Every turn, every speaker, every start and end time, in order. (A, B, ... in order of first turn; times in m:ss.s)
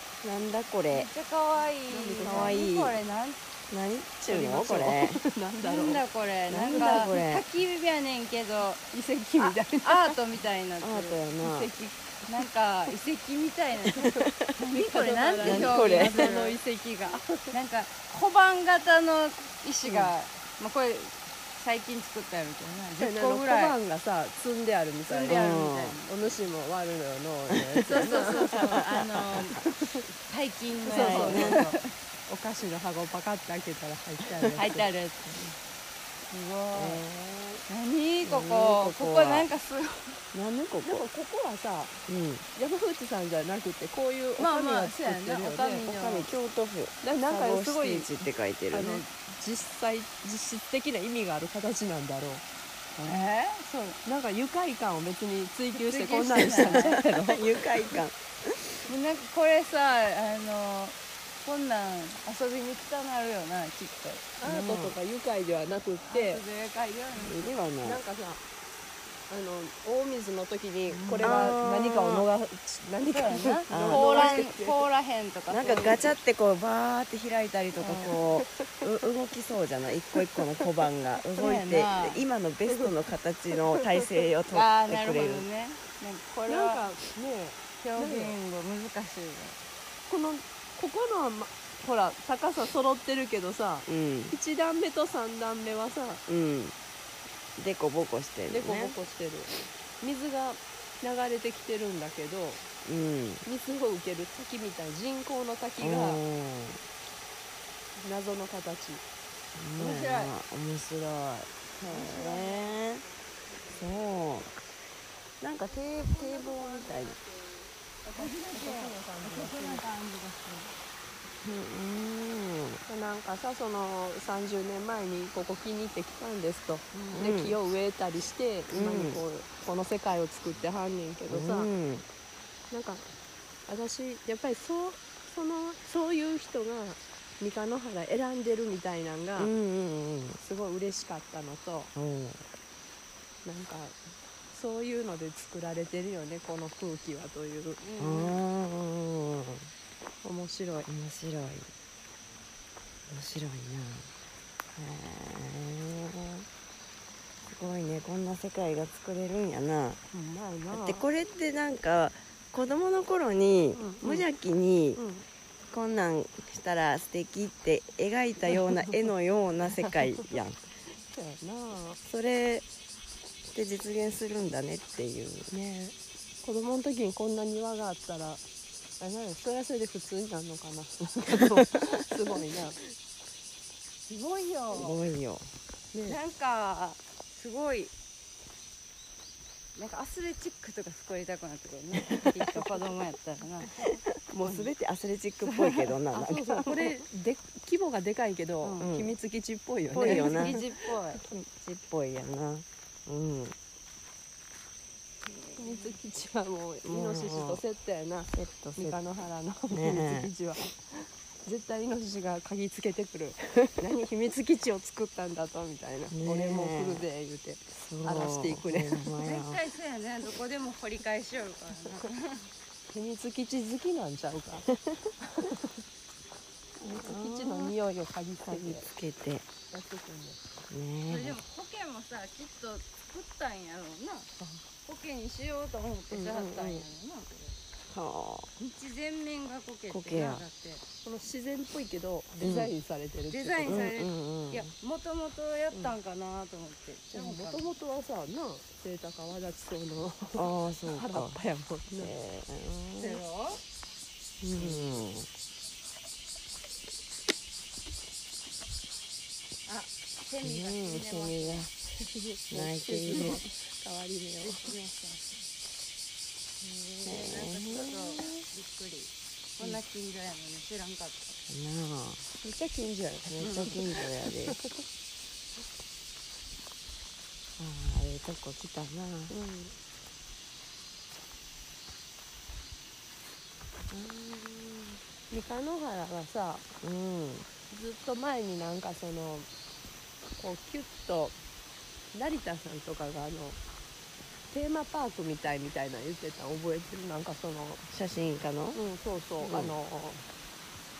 0:00.2-0:01.1 A
0:00.9-0:03.4 B
0:01.9-0:03.0 A
0:01.9-0:02.6 C
0:03.7-0:05.2 A
0:04.3-0:06.0 C
0:05.6-0:08.8 B
0:06.5-0:07.4 A
0:08.9-0:10.2 C
0:09.4-0:23.8 B
0:10.8-0:11.7 A
0:13.9-0:17.5 C
0:14.0-0:14.4 A
0:15.4-0:16.4 A
0:23.0-0:25.4 C
0:25.1-0:26.1 B
0:25.3-0:26.0 A
0:26.0-0:28.8 C
0:27.5-0:29.0 A
0:27.8-0:29.6 B
0:29.5-0:30.1 C
0:30.2-0:31.9 B
0:30.8-0:31.8 C
0:30.9-0:31.7 A
0:32.3-0:34.9 C
0:34.5-0:35.5 B
0:36.3-0:37.0 B
0:36.7-0:37.6 A
0:37.7-0:40.2 B
0:38.2-0:39.5 A
0:40.3-0:41.1 A
0:40.8-0:42.0 C
0:42.1-0:42.4 A
0:42.5-0:45.9 C
0:44.4-0:46.3 B
0:45.8-0:49.0 A
0:47.0-0:52.4 C
0:53.0-0:54.0 B
0:54.0-0:57.3 C
0:55.7-0:57.4 B
0:56.3-0:58.8 A
0:58.9-1:04.2 B
1:04.4-1:06.4 C
1:04.4-1:05.0 A
1:06.1-1:07.5 B
1:07.2-1:08.0 A
1:07.8-1:08.4 C
1:09.3-1:14.8 C
1:10.9-1:12.3 A
1:11.2-1:11.5 B
1:13.1-1:16.2 B
1:13.7-1:14.5 A
1:15.5-1:25.5 A
1:17.8-1:18.9 C
1:20.3-1:20.7 C
1:21.4-1:22.2 B
1:23.7-1:24.0 C
1:24.5-1:26.8 B
1:26.4-1:28.4 C
1:27.8-1:29.6 B
1:30.1-1:36.2 C
1:33.9-1:34.4 A
1:36.3-1:36.7 A
1:37.6-1:39.0 A
1:38.5-1:42.7 C
1:42.8-1:43.4 A
1:43.4-1:46.2 C
1:45.8-1:46.8 A
1:47.9-1:49.0 C
1:49.5-1:53.0 A
1:49.8-1:50.3 B
1:51.9-1:52.7 B
1:52.0-1:52.6 C
1:53.7-1:54.5 A
1:55.4-1:57.2 A
1:56.0-1:59.8 C
1:58.1-2:00.7 B
2:01.4-2:02.8 A
2:02.8-2:11.7 C
2:06.9-2:07.2 B
2:07.1-2:07.6 A
2:08.7-2:09.2 A
2:11.3-2:12.0 A
2:12.7-2:13.1 C
2:13.6-2:19.5 C
2:19.4-2:20.4 A
2:20.4-2:21.9 C
2:22.0-2:22.4 A
2:23.4-2:27.8 C
2:27.8-2:28.4 B
2:28.0-2:29.7 A
2:30.2-2:30.9 C
2:30.8-2:31.7 A
2:33.1-2:34.1 A
2:34.7-2:36.4 A
2:37.5-2:40.0 A
2:40.1-2:41.0 C
2:40.7-2:45.0 A
2:43.7-2:44.2 C
2:45.0-2:45.2 C
2:45.7-2:50.6 A
2:49.8-2:50.2 C
2:51.1-2:52.0 C
2:52.0-2:52.6 A
2:53.5-2:55.5 A
2:55.5-2:58.4 C
2:59.0-3:02.8 C
3:01.5-3:01.9 A
3:04.1-3:05.0 B
3:04.7-3:05.5 A
3:05.9-3:06.2 C
3:06.0-3:07.9 B
3:09.7-3:14.7 B
3:12.1-3:12.7 A
3:14.3-3:16.9 A
3:15.5-3:15.9 B
3:16.1-3:20.7 C
3:18.6-3:18.9 B
3:18.8-3:19.1 A
3:19.9-3:20.6 A
3:20.0-3:21.2 B
3:21.2-3:23.6 A
3:25.2-3:26.0 B
3:25.6-3:39.0 C
3:26.8-3:27.6 A
3:28.3-3:29.0 A
3:29.7-3:30.3 A
3:36.1-3:37.0 A
3:37.7-3:39.6 A
3:39.2-3:42.5 B
3:42.9-3:44.7 C
3:45.3-3:45.7 C
3:46.8-3:47.8 A
3:46.8-3:48.8 C
3:48.4-3:49.4 A
3:49.7-3:50.4 C
3:50.7-3:51.4 A
3:51.1-3:54.3 B
3:54.8-3:57.6 B
3:56.1-3:56.8 A
3:57.9-3:58.5 A
3:58.6-4:00.8 B
3:59.9-4:00.4 A
4:01.0-4:03.9 C
4:02.4-4:02.7 A
4:03.3-4:07.7 B
4:03.6-4:04.7 A
4:07.1-4:12.1 C
4:10.3-4:11.4 A
4:11.9-4:13.2 A
4:12.9-4:13.6 B
4:14.4-4:15.3 A
4:14.6-4:15.0 C
4:19.6-4:21.6 B
4:20.4-4:21.7 A
4:22.0-4:24.7 C
4:22.5-4:23.4 A
4:24.4-4:25.4 B
4:26.6-4:31.4 B
4:27.0-4:28.4 A
4:31.5-4:32.2 A
4:32.4-4:33.7 C
4:33.2-4:34.6 A
4:37.6-4:39.3 A
4:39.3-4:39.7 C
4:43.9-4:45.0 A
4:45.3-4:46.6 C
4:46.8-4:47.5 A
4:47.7-4:49.5 C
4:50.4-4:51.4 C
4:52.1-4:53.6 C
4:54.5-4:57.8 C
4:57.9-4:58.8 A
4:58.7-5:00.2 C
4:59.4-4:59.8 A